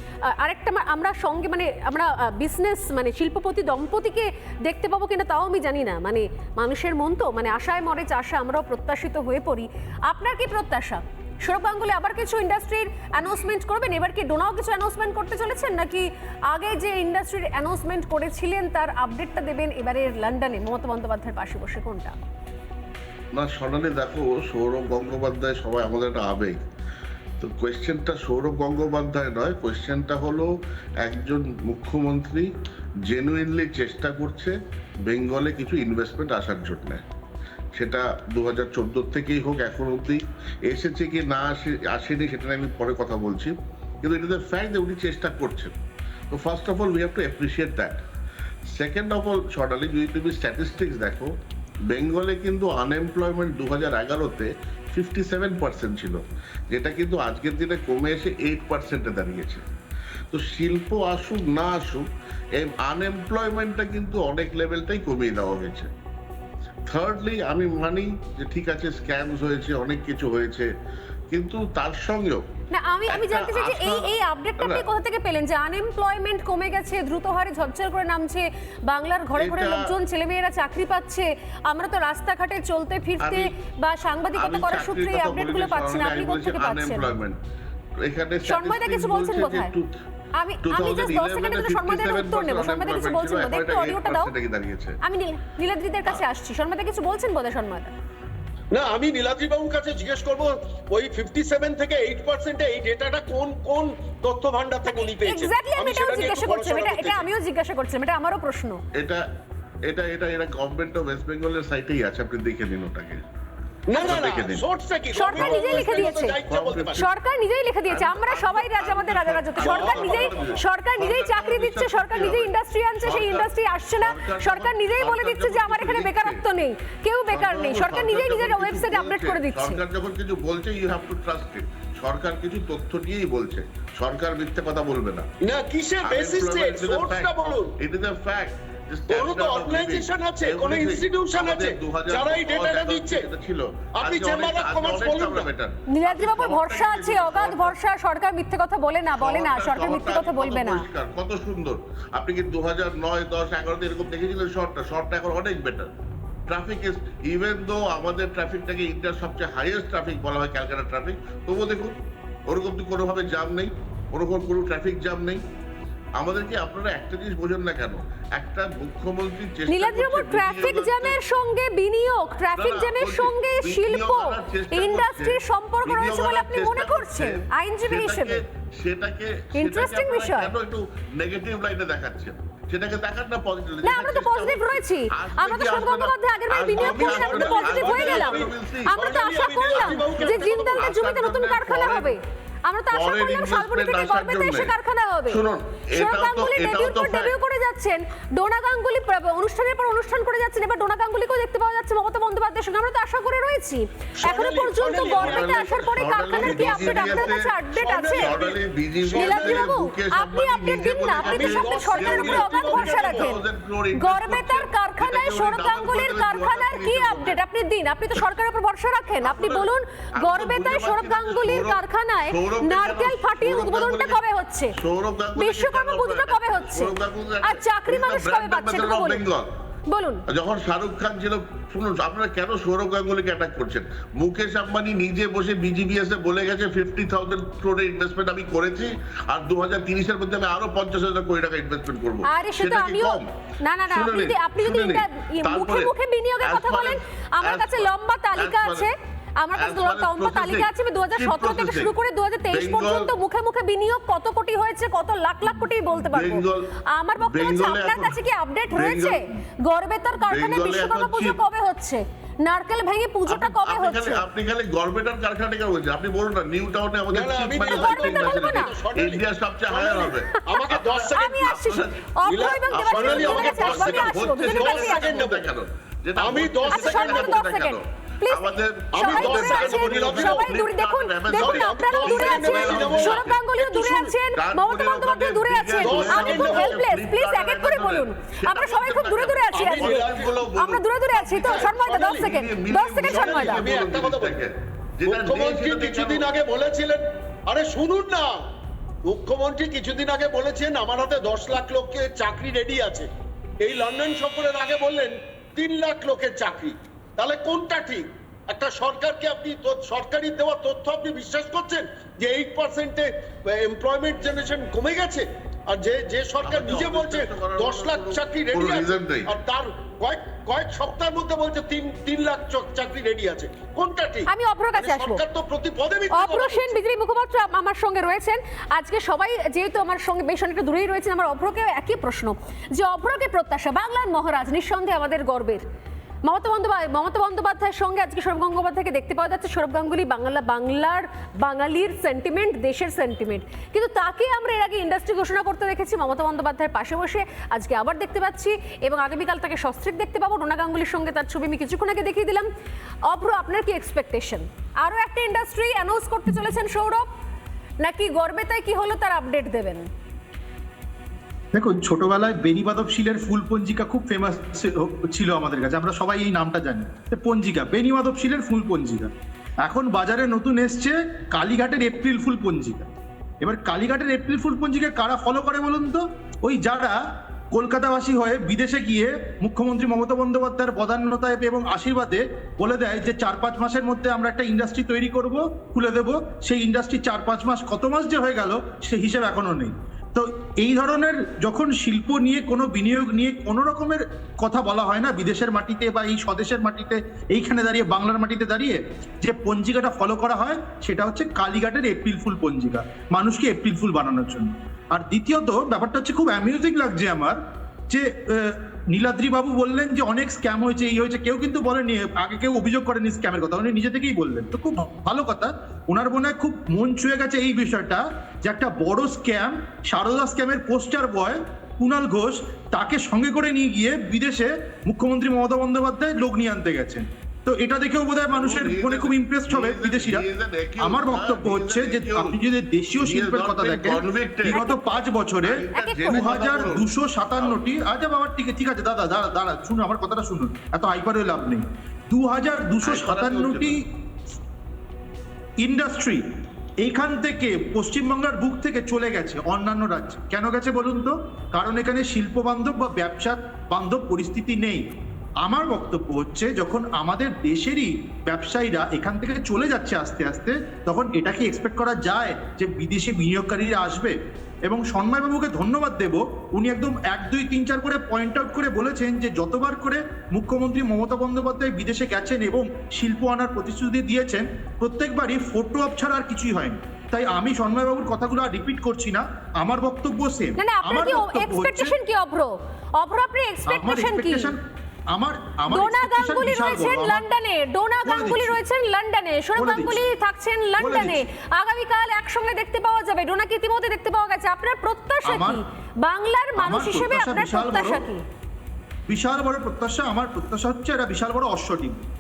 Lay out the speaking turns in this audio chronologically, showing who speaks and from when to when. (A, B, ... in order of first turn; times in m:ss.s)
0:00.3-0:22.2 A
0:23.3-0:26.6 B
0:27.4-0:30.5 B
0:31.0-0:32.5 B
0:33.1-0:34.5 B
0:35.1-0:37.0 B
0:37.8-0:45.7 B
0:46.3-0:48.0 B
0:48.7-0:51.3 B
0:51.9-0:59.6 B
1:00.3-1:02.0 B
1:02.6-1:05.9 B
1:06.9-1:10.7 B
1:11.3-1:12.4 B
1:12.7-1:27.1 A
1:13.1-1:14.8 B
1:19.4-1:19.8 B
1:23.2-1:23.5 B
1:24.4-1:27.4 B
1:28.0-1:29.9 B
1:28.5-1:29.7 A
1:30.4-1:34.3 A
1:30.6-1:35.0 B
1:35.0-1:37.9 A
1:38.7-1:47.3 C
1:44.9-1:48.8 A
1:49.0-1:49.2 B
1:49.9-1:53.2 B
1:53.9-1:57.0 C
1:53.9-1:54.7 B
1:55.1-1:56.4 A
1:55.3-1:57.1 B
1:56.9-2:09.8 A
1:57.9-2:06.4 B
1:59.6-2:00.4 C
2:07.3-2:15.3 B
2:15.4-2:17.7 C
2:16.0-2:27.8 B
2:19.1-2:23.3 C
2:24.0-2:25.5 C
2:25.9-2:30.8 A
2:29.1-2:35.9 B
2:36.5-2:41.9 B
2:42.5-2:45.4 B
2:46.2-2:51.2 B
2:49.7-2:58.4 A
2:52.6-2:57.3 B
2:57.8-3:12.2 B
2:59.6-3:00.5 A
3:03.8-3:15.4 A
3:06.8-3:10.8 C
3:12.9-3:14.7 B
3:15.3-3:17.3 B
3:15.9-3:28.4 A
3:24.2-3:25.8 C
3:25.2-3:27.6 B
3:26.3-3:29.7 C
3:28.2-3:37.4 B
3:29.1-3:33.4 A
3:31.2-3:33.3 C
3:34.0-3:44.8 A
3:39.2-3:39.7 B
3:40.2-3:41.8 B
3:42.3-3:44.2 B
3:44.8-3:49.4 B
3:45.4-3:49.2 A
3:49.9-3:50.2 A
3:50.3-4:03.3 B
4:02.3-4:16.4 A
4:03.9-4:05.9 B
4:06.4-4:08.9 B
4:09.6-4:11.9 B
4:12.5-4:13.1 B
4:15.9-4:16.6 B
4:17.0-4:24.2 A
4:17.2-4:18.2 B
4:18.7-4:19.2 B
4:20.3-4:21.4 B
4:23.3-4:31.9 B
4:27.1-4:31.6 C
4:27.6-4:28.7 A
4:31.1-4:35.2 A
4:32.3-4:35.5 C
4:32.4-4:43.4 B
4:36.2-4:37.4 C
4:36.6-4:53.7 A
4:38.9-4:40.5 C
4:41.3-4:44.2 C
4:44.4-4:56.4 B
4:45.8-4:46.8 C
4:49.5-4:50.3 C
4:51.1-4:52.3 C
4:53.1-4:54.4 C
4:55.0-4:58.3 C
4:59.0-5:03.1 C
5:03.6-5:26.8 C
5:16.4-5:19.3 B
5:24.3-5:25.2 A
5:26.1-5:35.6 A
5:36.2-5:52.5 A
5:53.1-5:57.1 A
5:57.8-5:59.9 A
6:01.6-6:09.1 D
6:09.6-6:12.9 D
6:13.4-6:17.0 D
6:17.5-6:47.4 D
6:47.9-7:10.2 D
7:08.3-7:12.4 B
7:10.8-7:23.8 D
7:13.0-7:14.7 B
7:14.5-7:15.0 A
7:15.4-7:17.6 B
7:15.7-7:16.5 A
7:22.8-7:23.8 B
7:25.6-7:26.2 D
7:26.8-7:34.8 D
7:35.4-7:44.2 D
7:44.7-8:02.0 D
8:00.6-8:04.5 A
8:03.7-8:04.6 D
8:05.1-8:07.2 D
8:05.7-8:18.2 A
8:08.0-8:08.6 D
8:09.6-8:10.0 D
8:10.8-8:11.2 D
8:15.3-8:15.6 D
8:16.6-8:18.0 D
8:19.1-8:22.0 D